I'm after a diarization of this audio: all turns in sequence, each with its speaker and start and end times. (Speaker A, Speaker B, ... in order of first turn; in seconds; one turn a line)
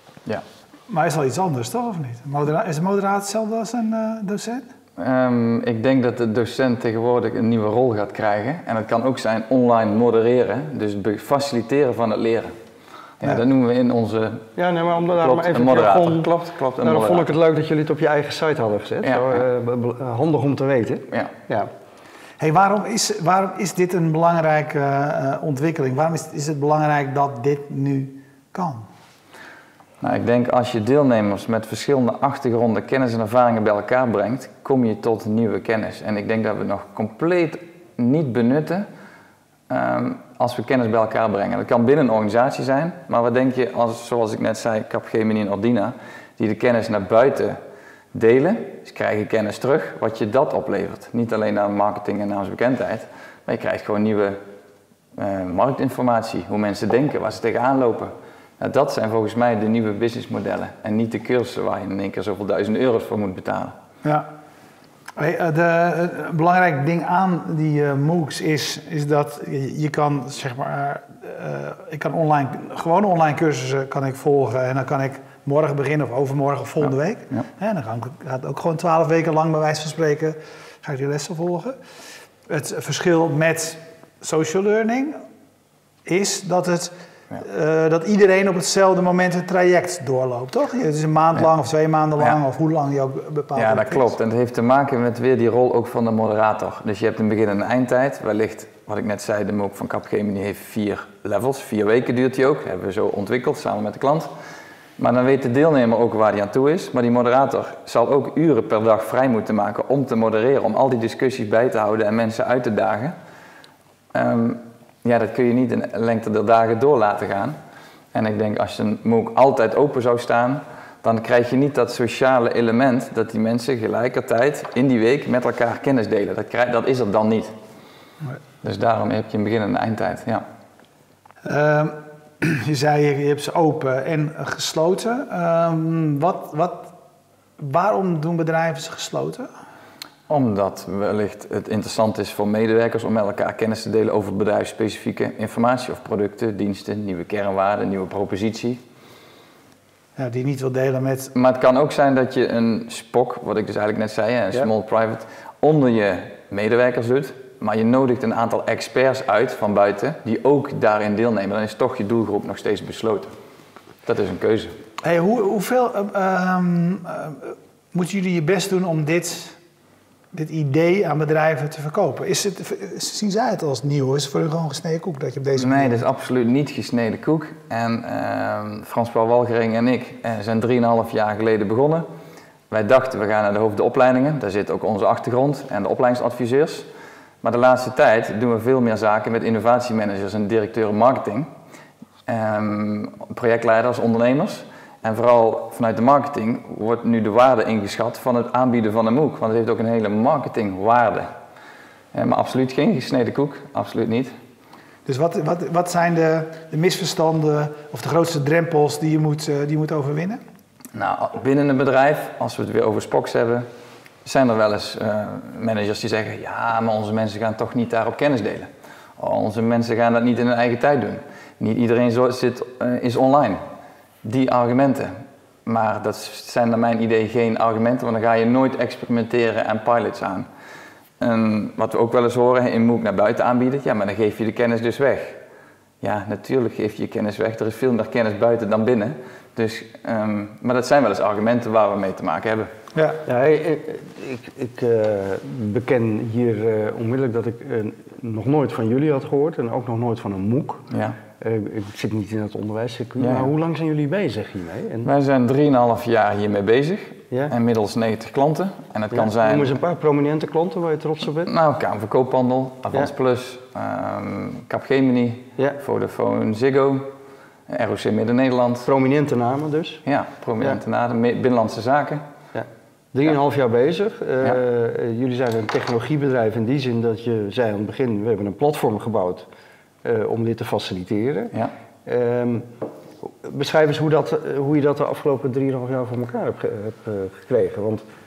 Speaker A: 0.9-4.7
Speaker B: 5.0-12.5
Speaker B: 13.2-14.5
Speaker C: 14.6-16.3
Speaker B: 15.1-17.3
Speaker C: 16.8-21.7
Speaker B: 19.0-19.4
Speaker A: 22.4-28.9
Speaker B: 30.0-38.9
Speaker B: 39.7-47.6
Speaker B: 48.1-54.4
Speaker B: 55.1-63.7
Speaker A: 65.2-81.8
Speaker A: 82.5-85.2
Speaker A: 86.0-94.1
Speaker B: 93.5-104.3
Speaker B: 105.0-113.2
Speaker B: 114.1-117.6
Speaker B: 118.1-127.5
Speaker B: 128.6-130.4
Speaker A: 131.4-136.9
Speaker A: 137.6-139.5
Speaker B: 140.3-148.8
Speaker A: 150.2-151.3
Speaker B: 151.3-163.3
Speaker B: 164.0-164.7
Speaker A: 165.0-169.6
Speaker A: 170.3-175.9
Speaker B: 175.6-182.1
Speaker B: 182.7-186.9
Speaker B: 187.4-191.5
Speaker B: 192.2-201.3
Speaker B: 202.1-204.3
Speaker A: 205.1-210.4
Speaker B: 210.9-213.7
Speaker B: 214.2-223.6
Speaker B: 224.2-225.1
Speaker B: 225.7-230.5
Speaker B: 231.2-235.4
Speaker B: 236.0-242.7
Speaker A: 242.9-243.2
Speaker C: 243.2-255.1
Speaker B: 250.9-251.2
Speaker B: 253.2-253.5
Speaker B: 255.0-259.7
Speaker C: 259.1-261.5
Speaker B: 261.4-267.1
Speaker B: 267.7-268.9
Speaker C: 268.8-270.0
Speaker B: 270.1-272.2
Speaker C: 272.5-279.5
Speaker C: 280.0-282.7
Speaker C: 283.2-288.0